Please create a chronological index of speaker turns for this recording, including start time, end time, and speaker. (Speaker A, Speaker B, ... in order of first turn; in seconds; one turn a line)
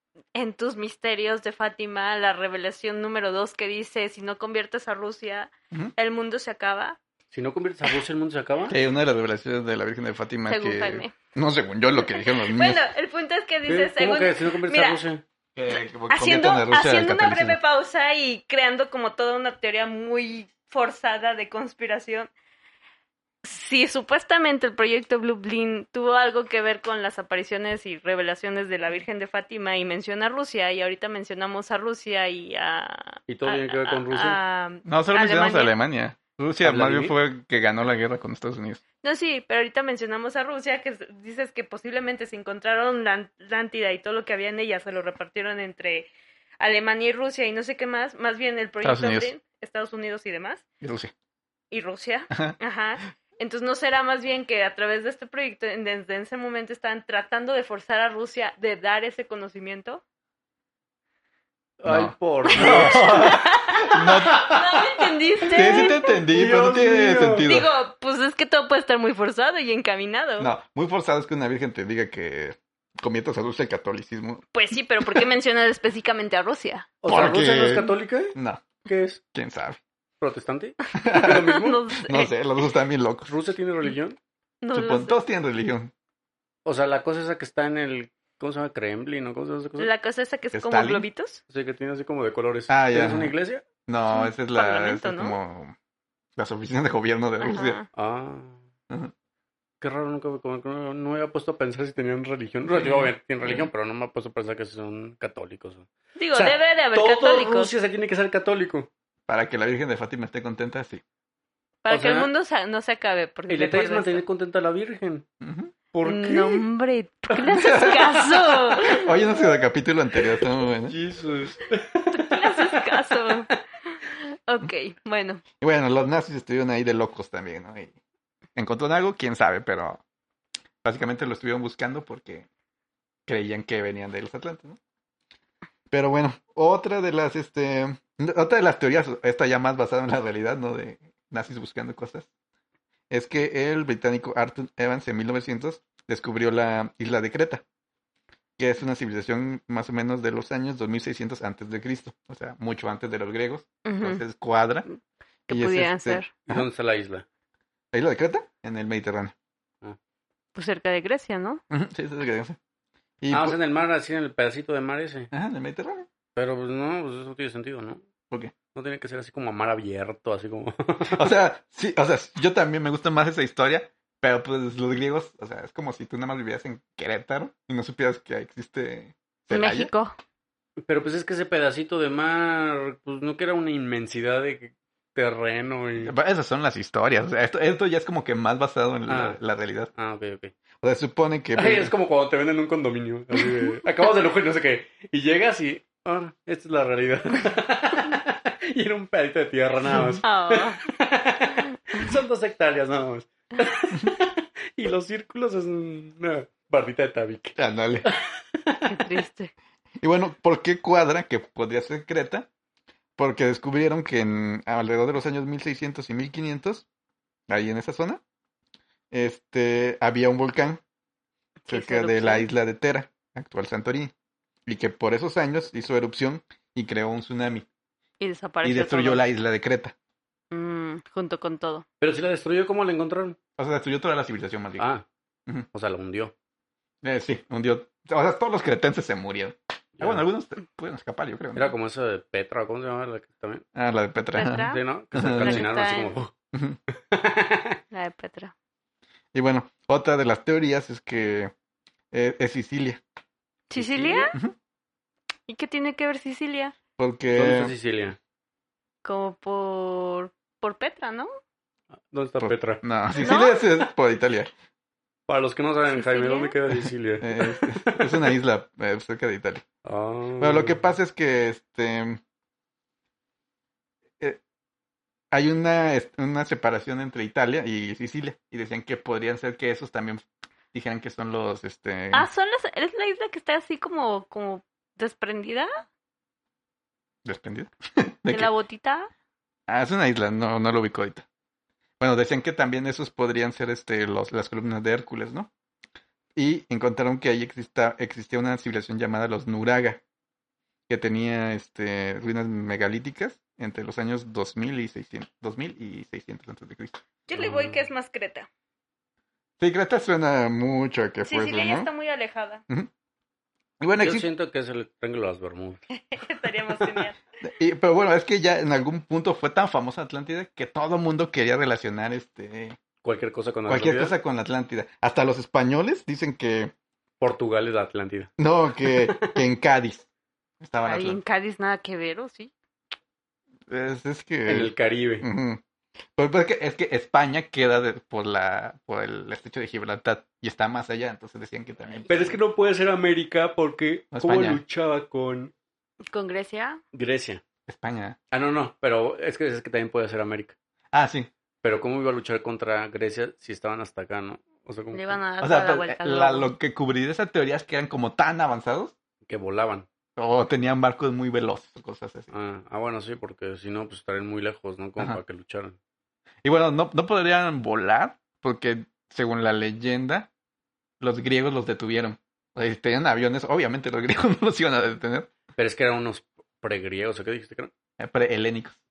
Speaker A: 0.3-7.0
Speaker B: 7.3-8.8
Speaker C: 8.7-12.8
Speaker A: 10.5-11.1
Speaker A: 12.0-15.0
Speaker B: 13.7-15.2
Speaker C: 15.6-17.6
Speaker A: 16.1-22.3
Speaker A: 23.4-35.7
Speaker B: 33.3-34.4
Speaker C: 34.9-38.8
Speaker B: 36.6-37.1
Speaker A: 39.0-46.1
Speaker A: 46.6-50.6
Speaker C: 48.8-49.3
Speaker C: 50.8-51.1
Speaker A: 51.7-60.0
Speaker B: 61.8-64.6
Speaker C: 61.9-64.5
Speaker A: 62.5-66.1
Speaker B: 65.4-67.5
Speaker C: 65.5-67.7
Speaker A: 67.4-70.5
Speaker C: 70.4-74.4
Speaker A: 74.5-76.9
Speaker B: 77.0-79.2
Speaker C: 77.1-78.7
Speaker C: 79.3-79.8
Speaker B: 80.2-81.8
Speaker C: 81.0-81.5
Speaker A: 81.0-82.3
Speaker C: 82.0-83.3
Speaker B: 83.2-84.2
Speaker A: 84.6-85.2
Speaker C: 84.7-85.9
Speaker B: 86.6-89.9
Speaker A: 89.8-91.4
Speaker C: 90.5-91.0
Speaker B: 91.5-93.6
Speaker C: 92.7-93.3
Speaker C: 93.9-95.7
Speaker A: 94.1-95.4
Speaker C: 96.4-97.8
Speaker A: 97.4-97.9
Speaker B: 97.9-98.6
Speaker B: 99.8-108.9
Speaker C: 102.7-103.7
Speaker A: 106.2-107.7
Speaker C: 109.3-111.0
Speaker A: 111.8-114.2
Speaker B: 111.9-112.3
Speaker B: 113.5-115.2
Speaker C: 115.4-115.7
Speaker B: 115.9-116.6
Speaker A: 116.0-119.1
Speaker B: 117.3-118.9
Speaker C: 117.5-118.0
Speaker C: 118.9-120.9
Speaker B: 120.4-123.3
Speaker A: 122.1-123.5
Speaker A: 124.2-125.4
Speaker C: 125.6-127.9
Speaker C: 128.6-130.0
Speaker C: 130.8-132.5
Speaker C: 133.3-134.8
Speaker C: 135.9-142.3
Speaker C: 143.1-147.6
Speaker C: 148.6-154.8
Speaker A: 153.8-154.2
Speaker A: 155.5-156.3
Speaker C: 155.5-156.7
Speaker B: 156.4-157.2
Speaker C: 157.9-159.3
Speaker A: 160.5-161.6
Speaker C: 161.7-162.6
Speaker C: 163.2-163.6
Speaker B: 163.3-165.3
Speaker C: 165.3-166.1
Speaker B: 166.3-168.1
Speaker B: 168.7-171.2
Speaker C: 171.1-179.9
Speaker A: 179.5-180.1
Speaker B: 180.8-186.1
Speaker C: 186.0-189.9
Speaker B: 189.1-189.4
Speaker B: 189.9-190.5
Speaker C: 190.8-191.9
Speaker B: 191.6-209.2
Speaker A: 200.2-200.8
Speaker C: 207.6-208.1
Speaker A: 208.8-209.5
Speaker C: 210.0-212.5
Speaker C: 213.2-216.8
Speaker C: 217.5-218.2
Speaker C: 219.1-220.8
Speaker A: 221.7-222.5
Speaker C: 221.7-224.1
Speaker C: 224.7-227.7
Speaker A: 228.2-229.2
Speaker C: 228.6-229.9
Speaker A: 230.5-231.8
Speaker B: 232.0-233.4
Speaker C: 233.6-234.9
Speaker B: 234.8-235.0
Speaker B: 235.7-236.3
Speaker C: 237.0-241.7
Speaker B: 240.0-240.2
Speaker B: 241.6-243.6
Speaker C: 243.7-245.7
Speaker A: 244.3-244.8
Speaker B: 244.5-246.3
Speaker A: 245.4-246.1
Speaker B: 246.9-247.8
Speaker A: 247.9-248.5
Speaker C: 249.3-251.5
Speaker C: 252.1-253.0
Speaker A: 253.7-254.3
Speaker B: 253.8-254.3
Speaker A: 255.5-256.8
Speaker C: 257.0-257.7
Speaker B: 257.3-258.2
Speaker A: 259.0-261.3
Speaker B: 262.1-262.8
Speaker C: 262.4-264.5
Speaker A: 263.2-263.6
Speaker B: 265.3-268.3
Speaker A: 265.9-266.5
Speaker C: 267.2-269.6
Speaker B: 269.8-270.8
Speaker C: 270.4-272.2
Speaker C: 275.3-282.3
Speaker A: 282.1-285.8
Speaker C: 287.2-288.5
Speaker A: 288.3-289.1
Speaker C: 289.7-291.2
Speaker C: 292.0-295.5
Speaker C: 296.4-300.0
Speaker C: 300.9-307.0
Speaker A: 307.3-308.5
Speaker B: 307.4-307.8
Speaker C: 309.6-311.9
Speaker A: 311.2-312.6
Speaker C: 313.8-314.3
Speaker B: 314.0-315.8
Speaker A: 315.9-317.2
Speaker C: 317.4-322.8
Speaker B: 323.0-324.1
Speaker C: 323.7-326.7
Speaker B: 327.2-329.4
Speaker C: 328.4-330.1
Speaker C: 330.6-331.2
Speaker A: 330.8-332.5
Speaker C: 333.7-335.6
Speaker B: 334.5-335.2
Speaker C: 336.1-342.4
Speaker B: 342.1-345.5
Speaker A: 342.1-342.3
Speaker C: 344.1-344.6
Speaker A: 346.1-346.8
Speaker B: 346.9-347.4
Speaker C: 347.7-348.2
Speaker B: 348.3-350.5
Speaker C: 350.9-351.3
Speaker B: 351.6-355.2
Speaker A: 354.9-356.5
Speaker C: 355.4-358.9
Speaker B: 359.3-359.9
Speaker C: 360.2-362.3
Speaker B: 362.3-365.8
Speaker C: 366.4-370.3
Speaker C: 371.0-375.3
Speaker B: 375.6-377.7
Speaker C: 378.0-378.8